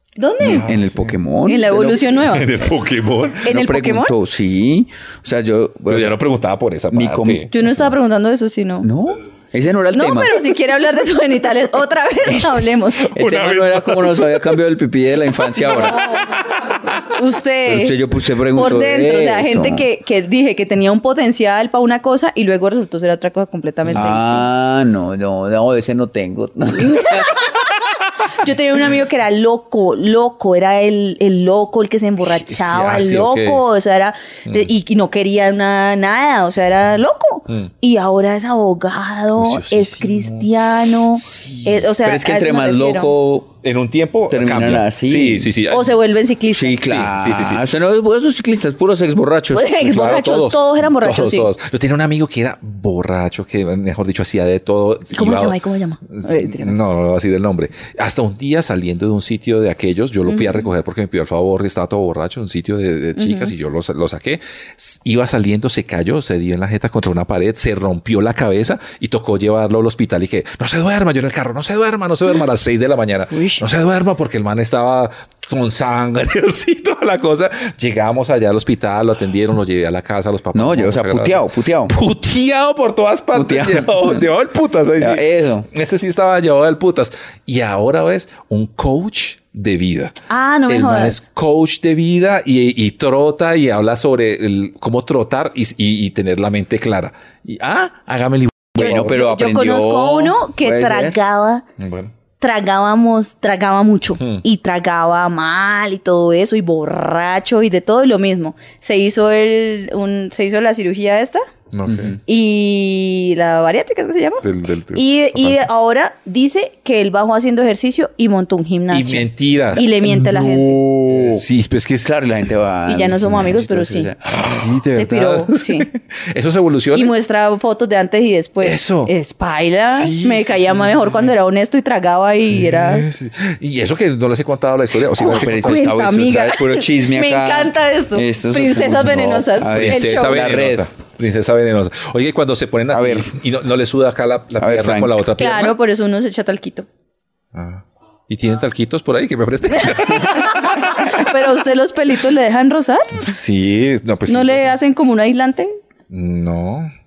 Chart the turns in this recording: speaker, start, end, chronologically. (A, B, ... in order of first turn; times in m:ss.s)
0:00.2-0:00.7 A
0:00.4-0:02.2 B
0:00.4-0:01.2 C
0:01.5-0:02.5 A
0:02.3-0:03.5 C
0:03.4-0:04.1 A
0:03.5-0:06.2 B
0:05.9-0:07.8 C
0:06.9-0:07.5 B
0:07.5-0:08.9 A
0:08.8-0:10.5 B
0:09.9-0:13.1 A
0:12.2-0:16.1 B
0:13.0-0:14.4 C
0:15.6-0:18.0 A
0:17.6-0:19.9 B
0:18.5-0:24.5 A
0:23.9-0:27.4 B
0:26.8-0:43.1 A
0:32.4-0:33.6 C
0:39.4-0:40.4 C
0:41.2-0:41.8 C
0:42.0-0:43.5 B
0:43.6-0:45.9 C
0:44.3-0:45.5 B
0:45.7-0:47.1 A
0:46.5-0:49.7 B
0:46.8-0:47.6 C
0:49.5-0:51.5 A
0:49.8-0:55.6 C
0:55.1-0:56.8 A
0:56.1-1:30.2 C
1:00.3-1:00.6 A
1:03.2-1:03.5 A
1:20.5-1:21.9 B
1:23.3-1:24.3 B
1:25.0-1:25.7 B
1:30.3-1:31.2 A
1:30.7-1:39.2 C
1:38.8-1:41.2 B
1:38.8-1:41.6 A
1:41.8-1:42.1 C
1:42.4-1:51.4 A
1:51.7-1:52.2 C
1:51.9-1:52.2 B
1:52.3-2:00.9 A
1:54.4-1:55.7 C
1:58.9-2:02.1 C
2:02.0-2:04.4 B
2:02.9-2:04.1 A
2:04.2-2:07.1 C
2:04.9-2:05.9 A
2:07.0-2:13.1 A
2:08.6-2:09.1 C
2:09.9-2:11.3 C
2:12.5-2:15.8 C
2:15.2-2:20.5 A
2:15.2-2:20.9 B
2:19.6-2:25.8 C
2:22.9-2:23.3 B
2:24.6-2:25.3 B
2:25.4-2:26.9 A
2:27.5-2:31.2 C
2:29.8-2:33.2 A
2:33.2-2:34.7 C
2:34.3-2:35.7 A
2:36.1-2:36.9 C